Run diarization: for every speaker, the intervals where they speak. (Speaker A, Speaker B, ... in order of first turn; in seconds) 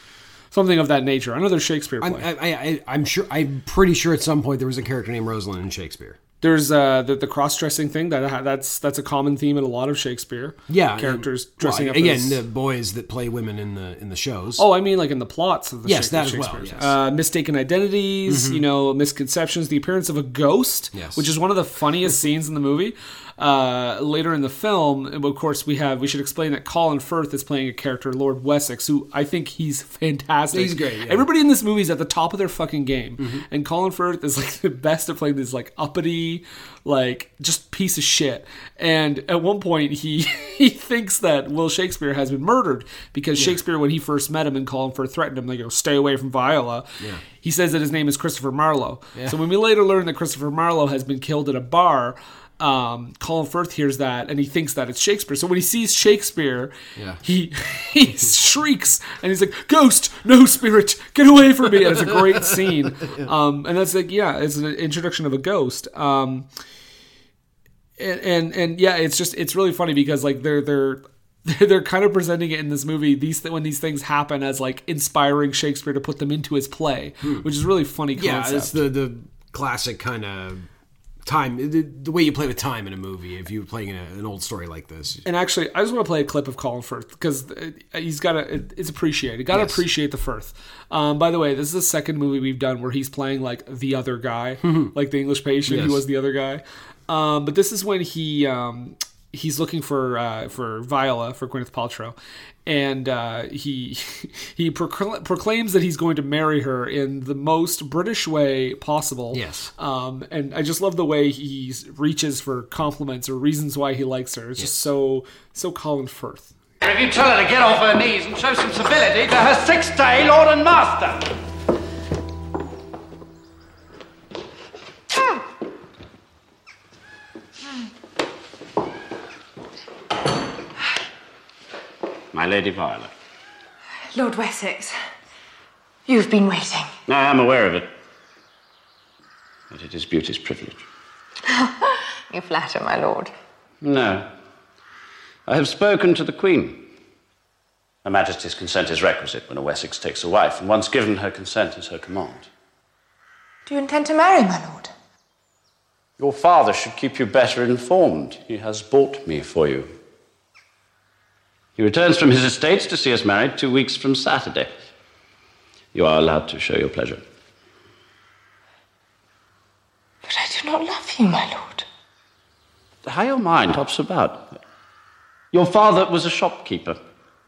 Speaker A: 0.5-2.2, 6.4-12.4, 14.6-66.5, 68.0-78.8, 85.2-116.5
Speaker B: 2.0-6.2, 10.7-14.6, 15.8-16.9, 18.3-18.6, 20.9-21.3, 30.5-31.3, 33.2-33.4, 57.0-57.2, 61.8-63.3, 77.2-77.5, 78.1-80.7, 81.2-85.2, 89.5-89.8, 94.6-94.9, 95.7-96.0, 109.3-109.7
Speaker C: 116.8-121.3
Speaker D: 132.3-133.1, 137.1-137.9, 139.7-140.8, 143.8-144.3, 145.5-146.9, 148.0-152.5, 156.2-159.9, 161.8-164.7, 165.9-167.2, 173.0-174.6, 175.5-177.0
Speaker E: 134.1-134.9, 136.1-136.9, 141.5-143.3, 153.7-154.9, 170.2-171.8